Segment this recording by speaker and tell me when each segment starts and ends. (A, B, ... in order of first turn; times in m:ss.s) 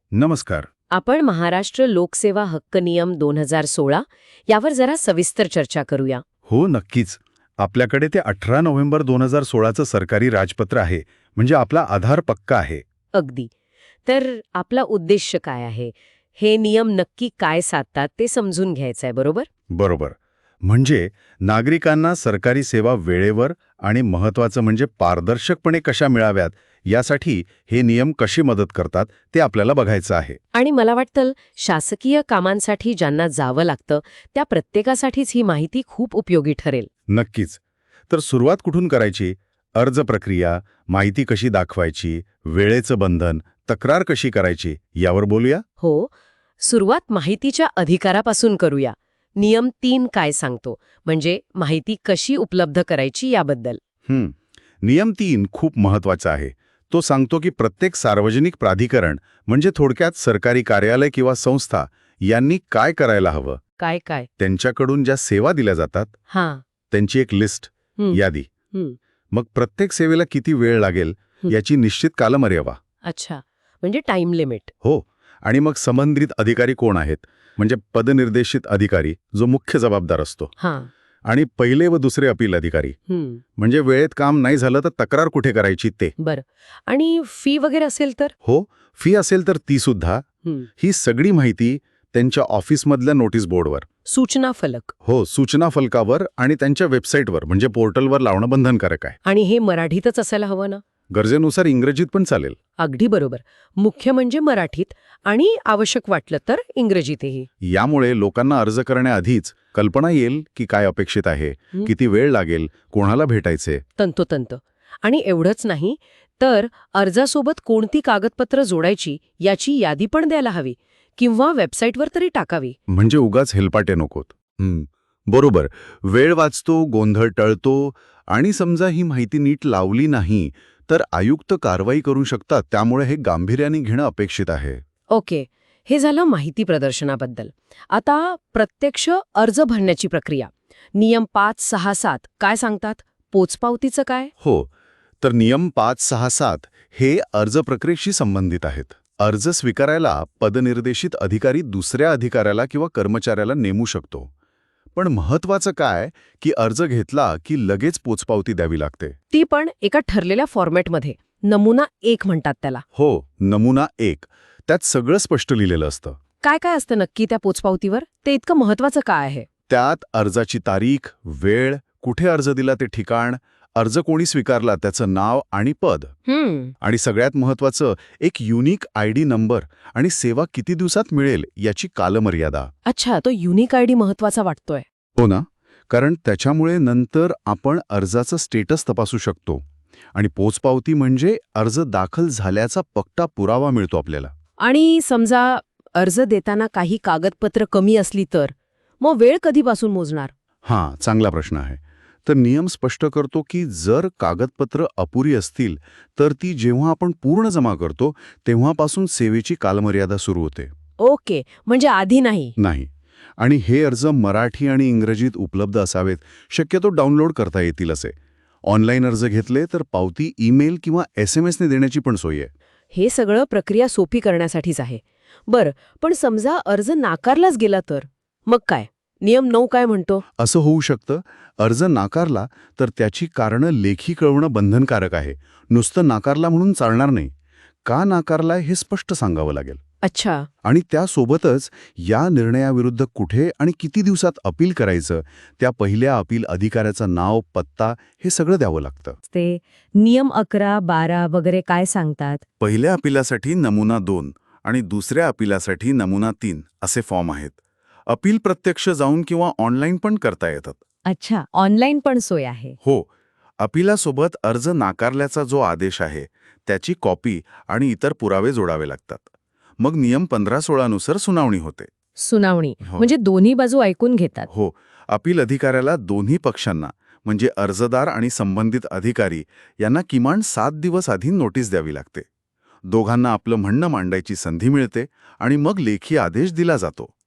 0:00.1-0:00.7 A
0:00.9-0:06.2 B
0:06.5-0:12.8 A
0:13.1-0:13.5 B
0:14.0-0:19.5 B
0:19.7-0:30.4 A
0:30.5-0:36.9 B
0:37.1-0:45.6 A
0:45.8-0:53.8 B
0:54.1-1:03.6 A
1:03.8-1:04.3 B
1:04.4-1:06.1 A
1:06.3-1:06.6 B
1:06.9-1:08.5 A
1:09.3-1:12.8 A
1:13.0-1:14.7 B
1:14.8-1:20.5 A
1:20.6-1:20.9 B
1:21.2-1:23.0 A
1:23.1-1:23.4 B
1:23.6-1:26.1 A
1:26.2-1:28.3 B
1:28.4-1:30.2 A
1:30.8-1:33.8 A
1:34.0-1:34.9 B
1:35.0-1:39.2 A
1:39.2-1:40.8 B
1:41.1-1:42.6 A
1:42.8-1:47.5 B
1:47.6-1:53.8 A
1:54.0-2:02.8 B
2:02.9-2:14.8 A
2:15.1-2:24.3 B
2:24.4-2:24.7 A
2:25.2-2:34.3 A
2:34.9-2:39.2 A
2:39.3-2:42.8 B
2:42.9-2:46.2 A
2:46.4-2:49.5 B
2:49.7-2:56.1 A
2:56.3-2:56.7 B
2:56.8-3:02.7 A
3:02.8-3:04.8 B
3:05.2-3:09.6 A
3:10.1-3:14.3 A
3:14.6-3:20.3 B
3:20.6-3:30.7 A
3:31.0-3:32.5 B
3:32.6-3:42.5 A
3:42.9-3:50.2 B
3:50.4-3:57.3 A
3:57.8-3:59.8 A
4:00.0-4:00.5 B
4:00.6-4:09.2 A
4:09.3-4:12.4 C
4:12.6-4:20.8 A
4:21.0-4:22.8 C
4:22.8-4:23.1 A
4:23.6-4:31.9 A
4:32.2-4:34.5 C
4:32.8-4:33.1 A
4:34.5-4:42.2 A
4:42.9-4:47.1 A